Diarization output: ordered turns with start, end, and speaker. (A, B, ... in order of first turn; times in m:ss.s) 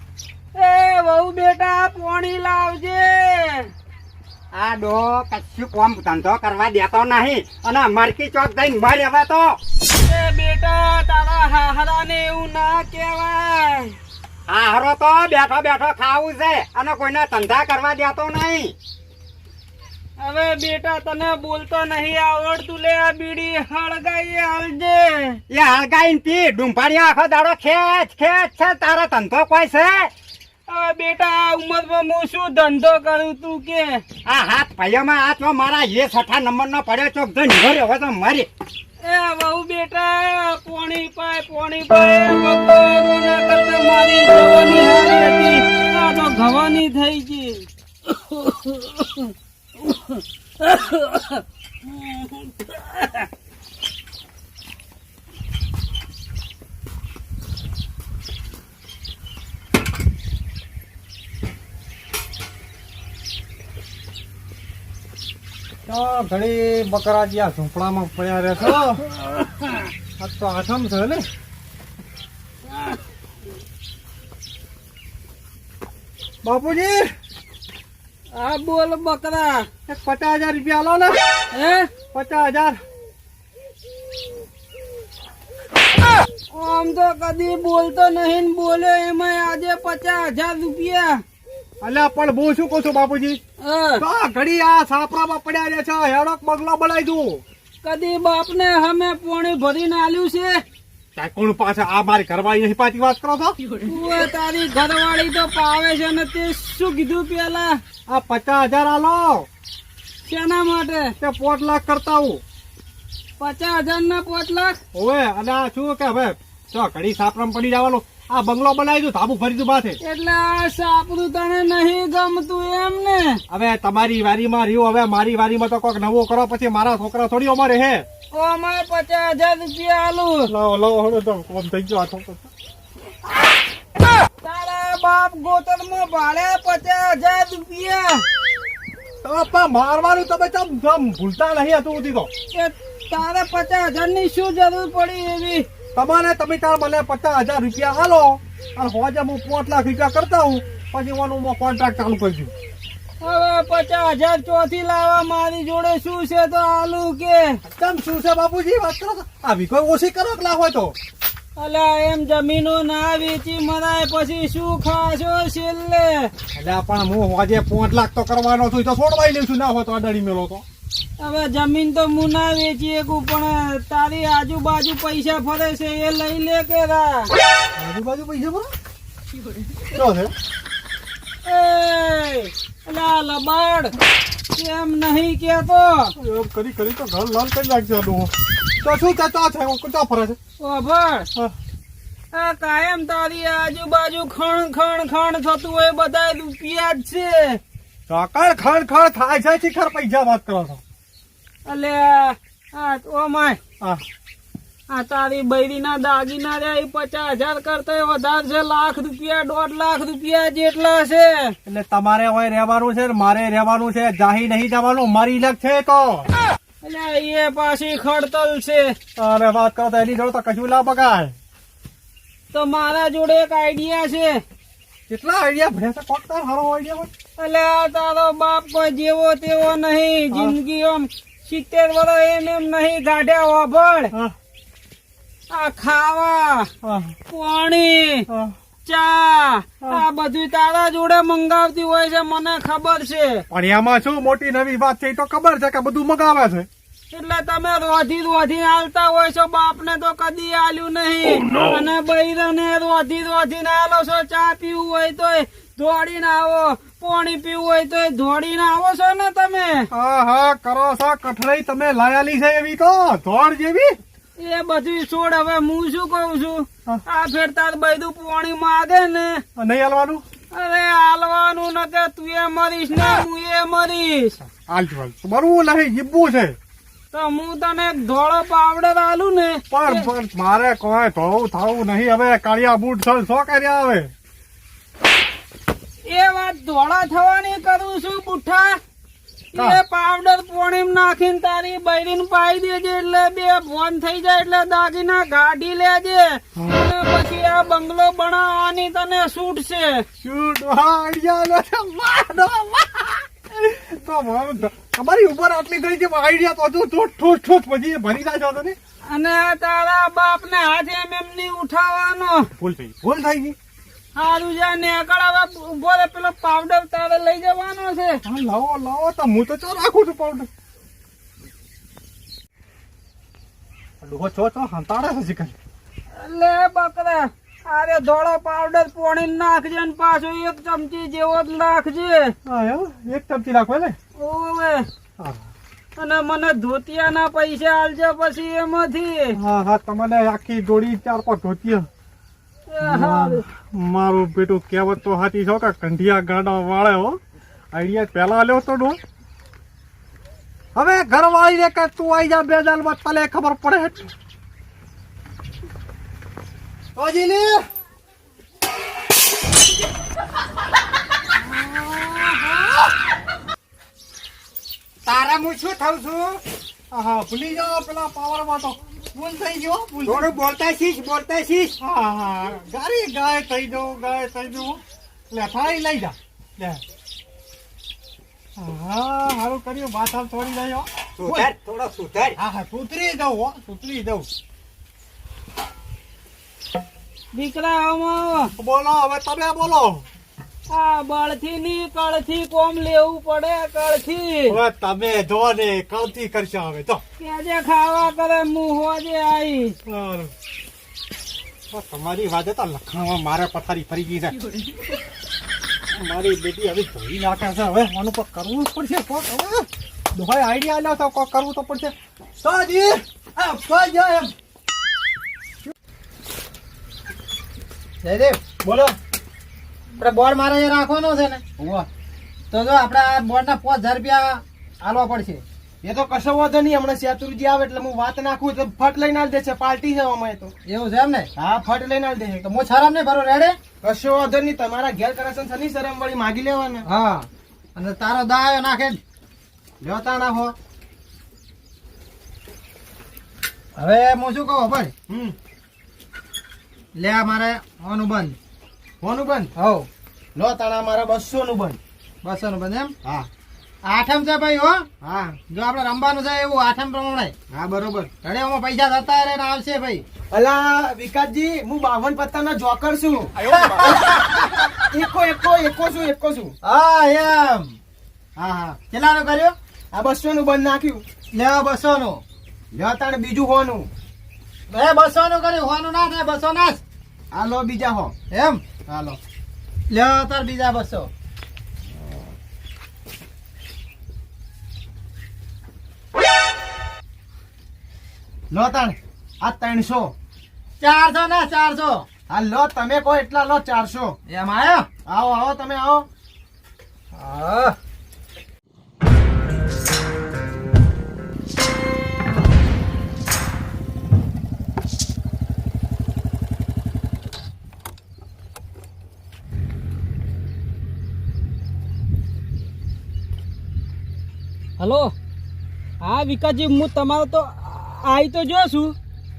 0:00.6-0:03.7 A
0:04.5-0:09.6 B
0:10.0-0:14.0 A
0:14.5-0:18.7 B
0:20.2-0:25.4 A
0:25.5-0:30.1 B
0:30.7-0:34.0 A
0:34.2-0:38.5 B
0:39.0-0:49.3 A
0:49.8-0:53.2 A
1:05.9-1:09.0 C
1:10.2-1:11.2 C
1:16.4-1:17.1 C
1:18.3-1:19.7 A
1:19.9-1:21.2 C
1:21.5-1:21.9 A
1:22.1-1:22.8 C
1:26.5-1:31.2 A
1:31.8-1:33.4 C
1:33.6-1:34.0 A
1:34.0-1:37.4 C
1:37.8-1:40.6 A
1:41.2-1:43.6 C
1:43.8-1:47.8 A
1:48.1-1:49.5 C
1:50.2-1:51.1 A
1:51.2-1:52.4 C
1:53.4-1:54.8 A
1:54.9-2:00.0 C
2:00.0-2:03.4 A
2:03.5-2:08.0 C
2:08.3-2:10.5 A
2:10.5-2:12.5 C
2:14.4-2:18.2 A
2:19.2-2:22.3 C
2:22.5-2:25.6 A
2:25.9-2:32.5 C
2:33.2-2:37.6 A
2:37.7-2:40.9 C
2:41.6-2:46.3 A
2:46.5-2:50.6 C
2:51.2-2:57.3 A
2:57.8-2:58.7 C
2:59.9-3:00.3 C
3:01.4-3:04.0 A
3:04.5-3:06.1 A
3:06.2-3:10.4 C
3:10.6-3:11.3 A
3:12.3-3:17.6 A
3:18.1-3:20.8 C
3:21.6-3:23.6 A
3:24.9-3:31.6 A
3:31.6-3:36.3 C
3:36.8-3:39.0 A
3:39.2-3:41.3 C
3:42.5-3:44.4 A
3:45.1-3:47.1 C
3:47.4-3:54.1 A
3:50.3-3:50.6 C
3:55.5-3:56.7 A
3:56.8-3:57.1 C
3:57.3-3:58.3 A
3:58.3-3:58.5 C
3:58.8-4:03.4 A
4:03.5-4:06.7 C
4:07.1-4:19.9 A
4:19.9-4:24.0 C
4:24.4-4:29.4 A
4:29.6-4:30.2 C
4:30.5-4:34.4 A
4:34.6-4:36.6 C
4:37.1-4:40.1 A
4:39.7-4:44.1 C
4:46.0-4:48.8 A
4:49.5-5:00.0 A
5:00.2-5:08.7 C
5:09.0-5:12.5 A
5:12.6-5:13.5 C
5:14.1-5:18.2 A
5:18.2-5:20.5 C
5:24.0-5:25.5 C
5:26.1-5:32.3 A
5:32.4-5:34.0 C
5:34.1-5:34.8 A
5:35.2-5:35.4 C
5:36.0-5:39.4 A
5:39.4-5:41.9 C
5:42.7-5:43.4 A
5:42.8-5:47.2 C
5:47.7-5:49.0 C
5:50.7-5:54.1 C
5:57.0-5:57.6 C
6:05.0-6:06.4 B
6:06.9-6:10.3 C
6:10.0-6:11.8 B
6:11.8-6:16.8 C
6:18.6-6:21.5 C
6:21.2-6:22.4 B
6:22.4-6:24.3 C
6:27.3-6:28.5 A
6:28.6-6:30.0 C
6:30.7-6:34.6 A
6:34.5-6:37.0 C
6:37.2-6:39.8 A
6:39.8-6:40.3 C
6:41.7-6:44.4 C
6:45.9-6:54.3 C
6:58.0-6:58.4 D
6:58.6-6:58.9 E
7:00.0-7:01.4 D
7:01.6-7:01.9 E
7:02.5-7:05.4 D
7:05.8-7:10.5 E
7:10.6-7:11.3 D
7:11.4-7:12.4 E
7:12.4-7:13.5 D
7:13.8-7:16.8 E
7:16.8-7:19.0 D
7:19.8-7:20.5 E
7:23.8-7:24.9 D
7:25.1-7:25.3 E
7:26.9-7:28.4 D
7:29.0-7:29.5 E
7:29.6-7:29.9 D
7:30.4-7:31.8 E
7:32.2-7:32.9 D
7:33.8-7:34.8 D
7:35.0-7:35.4 E
7:35.5-7:37.3 D
7:37.5-7:38.1 E
7:38.2-7:40.0 D
7:40.3-7:43.4 E
7:43.5-7:44.7 D
7:43.5-7:43.9 C
7:44.7-7:46.5 E
7:46.6-7:47.7 D
7:48.4-7:48.8 E
7:48.9-7:49.5 D
7:49.9-7:51.0 E
7:51.3-7:52.2 D
7:52.7-7:53.9 E
7:54.7-7:56.8 D
7:57.3-7:58.1 E
7:58.3-7:58.6 D
7:58.9-7:59.2 E
7:59.9-8:01.1 D
8:08.5-8:10.1 E
8:10.8-8:12.0 D
8:12.3-8:14.2 E
8:14.3-8:14.9 D
8:15.1-8:16.0 E
8:17.1-8:17.7 D
8:34.8-8:35.1 A
8:36.0-8:38.9 A